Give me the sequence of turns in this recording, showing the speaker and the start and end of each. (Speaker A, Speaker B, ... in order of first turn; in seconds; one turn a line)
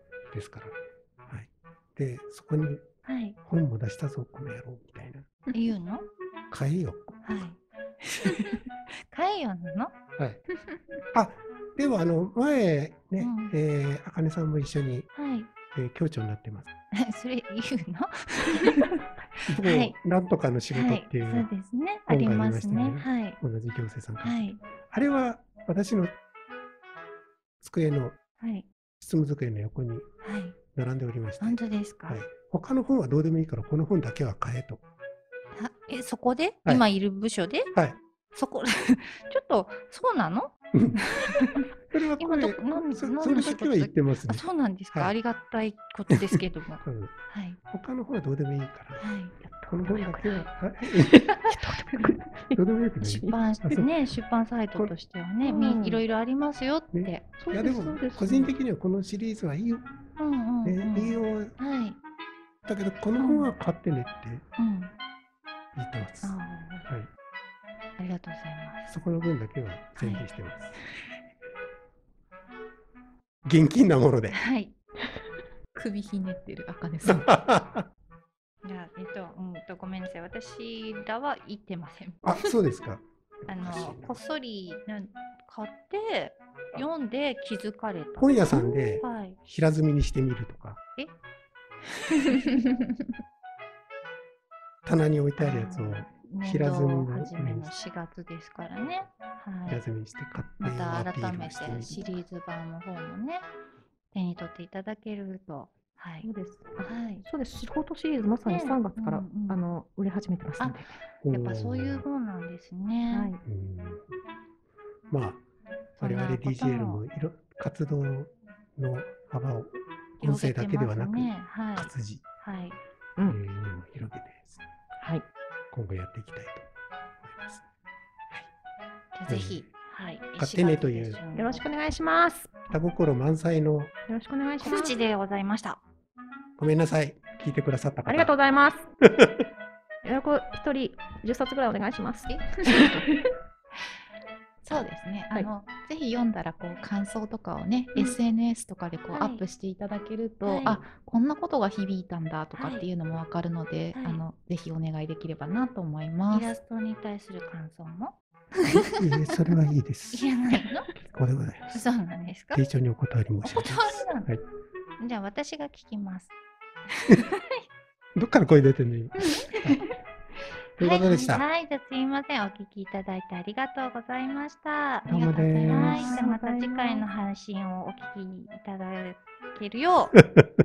Speaker A: 0.3-0.8
Speaker A: 1.3-2.8
Speaker B: 3.0-3.4
Speaker A: 3.4-5.3
Speaker B: 5.5-6.0
Speaker A: 6.5-7.3
Speaker B: 7.2-9.9
Speaker A: 10.2-10.4
Speaker C: 10.5-11.0
Speaker A: 11.1-15.1
Speaker B: 13.2-13.6
Speaker B: 15.1-15.5
Speaker A: 15.7-16.7
Speaker B: 16.9-19.9
Speaker A: 19.5-21.5
Speaker B: 20.7-23.4
Speaker A: 22.1-26.1
Speaker B: 24.2-24.6
Speaker A: 27.6-28.1
Speaker B: 28.4-28.7
Speaker A: 29.0-30.1
Speaker B: 30.2-30.6
Speaker A: 30.7-34.8
Speaker B: 31.4-32.2
Speaker B: 35.5-37.7
Speaker B: 38.3-47.6
Speaker A: 41.9-45.1
Speaker A: 46.1-47.1
Speaker A: 47.7-49.1
Speaker B: 49.0-49.3
Speaker D: 49.5-50.4
Speaker A: 49.6-51.3
Speaker D: 51.1-53.4
Speaker B: 51.5-52.1
Speaker A: 52.5-53.9
Speaker B: 53.0-57.3
Speaker D: 55.4-56.0
Speaker A: 56.9-59.8
Speaker D: 57.3-58.5
Speaker B: 60.2-62.0
Speaker A: 60.6-61.5
Speaker A: 62.6-64.4
Speaker B: 63.1-63.5
Speaker B: 64.6-64.9
Speaker A: 65.7-67.1
Speaker B: 66.2-66.9
Speaker B: 68.0-68.9
Speaker A: 68.9-70.8
Speaker B: 70.0-70.2
Speaker A: 73.4-74.4
Speaker B: 74.3-74.7
Speaker C: 75.7-77.3
Speaker A: 77.0-77.8
Speaker B: 78.6-82.4
Speaker A: 82.2-84.2
Speaker B: 83.5-89.4
Speaker A: 88.2-90.8
Speaker C: 92.3-93.0
Speaker A: 94.8-97.7
Speaker B: 95.4-99.8
Speaker A: 99.7-102.2
Speaker B: 100.6-103.5
Speaker B: 104.1-106.3
Speaker D: 106.2-110.9
Speaker B: 106.8-107.2
Speaker B: 108.4-109.6
Speaker B: 110.6-113.3
Speaker A: 111.2-112.0
Speaker D: 113.1-113.4
Speaker A: 113.4-114.0
Speaker A: 115.1-115.4
Speaker A: 116.0-122.2
Speaker B: 116.0-117.0
Speaker B: 120.2-122.8
Speaker A: 123.2-124.6
Speaker A: 125.7-126.6
Speaker A: 127.2-127.6
Speaker B: 129.1-131.7
Speaker A: 129.3-129.7
Speaker A: 130.4-131.2
Speaker D: 131.3-132.7
Speaker A: 132.7-133.9
Speaker D: 134.1-134.9
Speaker B: 134.6-135.8
Speaker A: 136.6-138.3
Speaker D: 138.0-138.9
Speaker A: 139.1-139.4
Speaker D: 140.0-143.3
Speaker C: 142.6-142.9
Speaker C: 144.6-156.5
Speaker B: 149.1-149.4
Speaker B: 150.4-150.8
Speaker B: 152.5-152.9
Speaker B: 153.9-154.2
Speaker B: 156.3-158.1
Speaker A: 159.0-160.3
Speaker B: 160.1-160.8
Speaker A: 160.9-161.9
Speaker B: 161.7-162.6
Speaker A: 162.5-164.4
Speaker B: 163.4-164.3
Speaker B: 165.0-166.3
Speaker B: 166.9-167.6
Speaker A: 168.2-169.8
Speaker B: 169.2-169.9
Speaker A: 170.8-171.4
Speaker B: 170.8-180.2
Speaker A: 175.1-176.1
Speaker C: 175.1-176.3
Speaker D: 175.7-177.0